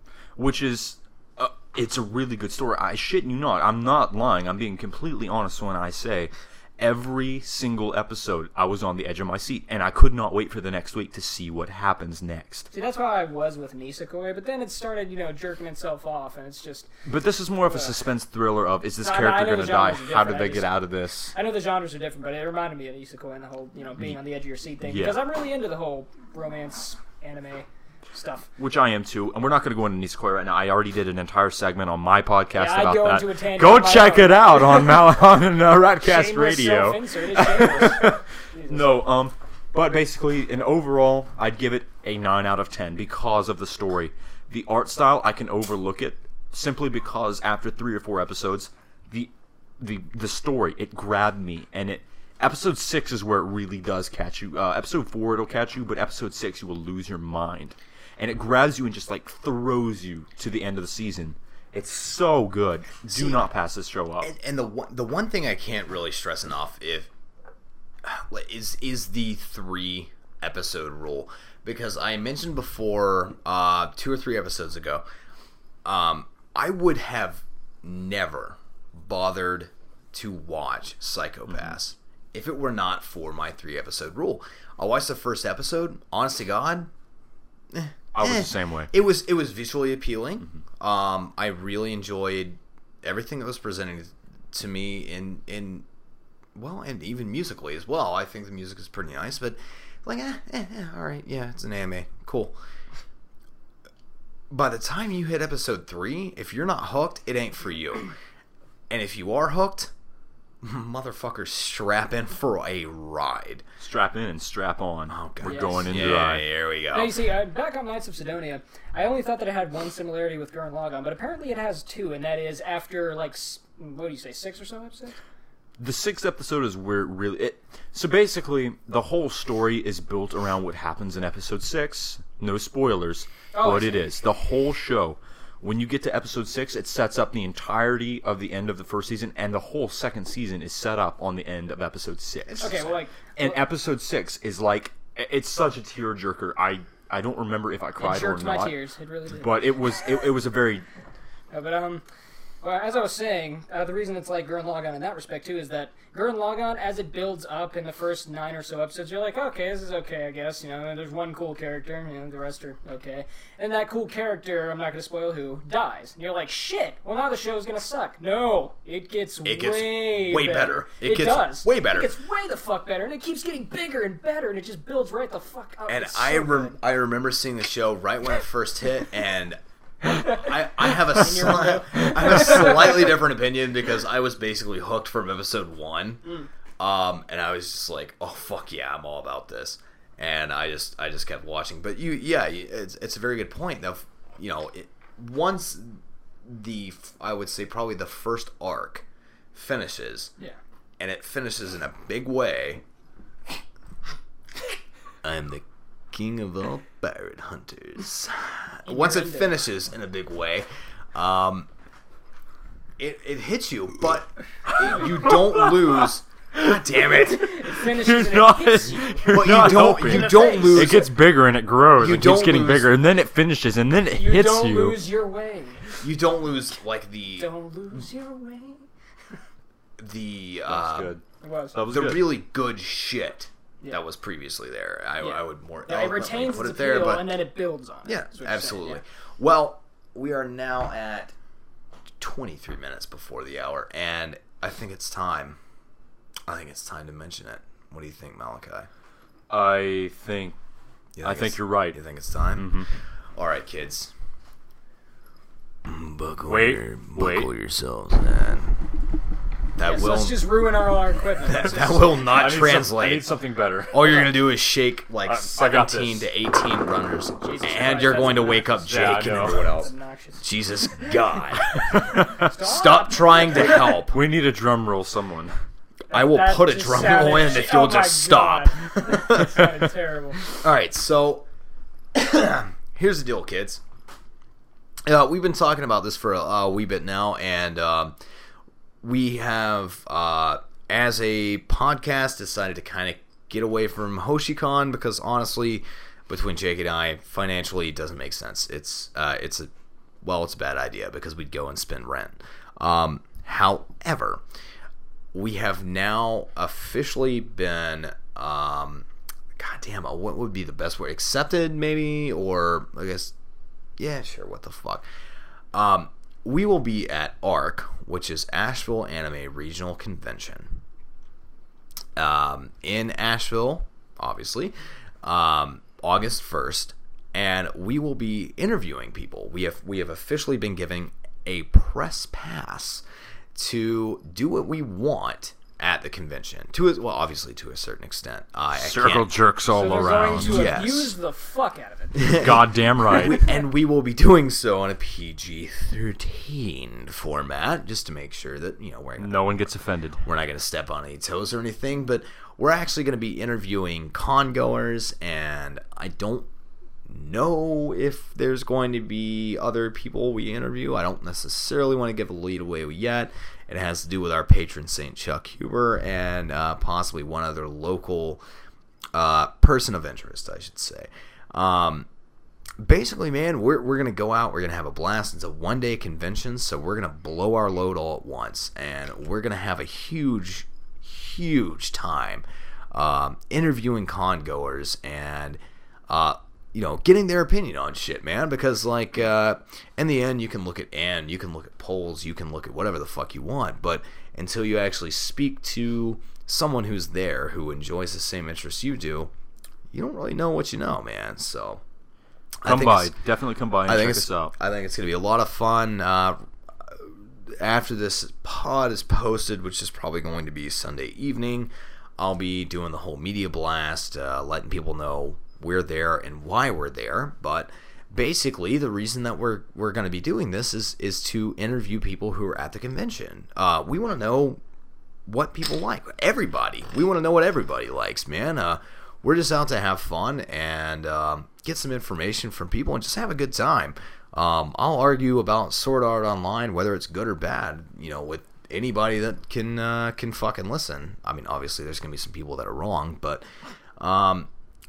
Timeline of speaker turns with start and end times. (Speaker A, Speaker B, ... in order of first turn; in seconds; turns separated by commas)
Speaker A: 0.4-12.7, Speaker B: 12.7-16.9, Speaker A: 17.1-21.3, Speaker B: 17.6-17.9, Speaker B: 19.0-20.8, Speaker B: 21.3-28.5, Speaker A: 24.8-25.2, Speaker A: 28.6-64.3, Speaker B: 32.5-35.1, Speaker B: 36.0-39.0, Speaker C: 63.1-63.5, Speaker C: 64.2-67.1, Speaker C: 68.0-75.0, Speaker C: 75.8-86.9, Speaker C: 87.7-95.9, Speaker A: 88.1-88.9, Speaker C: 96.5-102.5, Speaker C: 104.5-108.1, Speaker C: 108.9-109.9, Speaker C: 110.6-113.6, Speaker A: 113.8-116.5, Speaker C: 115.1-117.2, Speaker B: 115.4-116.0, Speaker B: 116.9-125.2, Speaker A: 125.8-142.8, Speaker B: 133.5-134.1, Speaker C: 142.5-142.9, Speaker B: 142.6-143.6, Speaker A: 143.4-148.7, Speaker B: 148.0-149.6, Speaker A: 149.3-150.8, Speaker B: 151.5-152.0, Speaker B: 152.6-176.8, Speaker C: 169.4-172.1, Speaker C: 175.9-179.6, Speaker C: 180.1-186.2, Speaker B: 181.0-183.1, Speaker C: 186.8-200.3, Speaker C: 201.0-202.8, Speaker C: 205.2-211.7, Speaker B: 208.9-209.6, Speaker C: 213.0-217.7, Speaker A: 215.3-215.8, Speaker B: 217.2-221.1, Speaker A: 217.8-225.1, Speaker C: 219.3-221.2, Speaker C: 222.0-223.0, Speaker B: 224.1-226.0, Speaker C: 226.0-228.0, Speaker B: 227.4-228.8, Speaker C: 230.0-231.2, Speaker A: 230.7-231.2, Speaker B: 231.4-231.8, Speaker A: 231.8-232.3, Speaker C: 231.9-237.4, Speaker B: 235.2-239.0, Speaker C: 238.1-241.3, Speaker C: 242.2-245.6, Speaker C: 246.5-248.9, Speaker A: 249.5-250.6, Speaker C: 251.2-252.8, Speaker A: 251.2-252.0, Speaker A: 252.6-252.9, Speaker C: 253.3-254.1, Speaker C: 255.8-258.8, Speaker A: 256.5-257.5, Speaker C: 259.8-260.5, Speaker B: 259.8-262.2, Speaker C: 261.5-263.3, Speaker A: 262.3-264.3, Speaker C: 263.9-269.9, Speaker A: 265.2-266.3, Speaker B: 267.4-270.5, Speaker A: 268.8-269.7, Speaker C: 270.4-271.8, Speaker A: 271.8-272.5, Speaker B: 272.2-274.0, Speaker C: 272.4-274.2, Speaker A: 274.0-275.5, Speaker C: 276.1-279.6, Speaker B: 276.1-280.4, Speaker C: 280.5-281.5, Speaker C: 282.1-283.8, Speaker C: 285.1-288.2, Speaker C: 289.0-299.7, Speaker C: 300.2-304.4, Speaker C: 305.3-313.3, Speaker C: 314.0-315.1, Speaker C: 315.7-320.8, Speaker C: 322.2-333.0, Speaker C: 333.6-339.3, Speaker A: 338.8-340.8, Speaker B: 339.7-342.4, Speaker C: 340.4-341.1, Speaker C: 342.1-349.5, Speaker A: 342.2-343.4, Speaker A: 349.2-350.2, Speaker C: 350.2-356.5, Speaker C: 357.1-368.4, Speaker C: 369.1-372.1, Speaker C: 372.8-399.3, Speaker C: 399.9-401.8, Speaker C: 402.6-403.1, Speaker A: 402.6-404.5, Speaker C: 403.9-424.6, Speaker C: 425.3-443.4, Speaker C: 444.0-444.5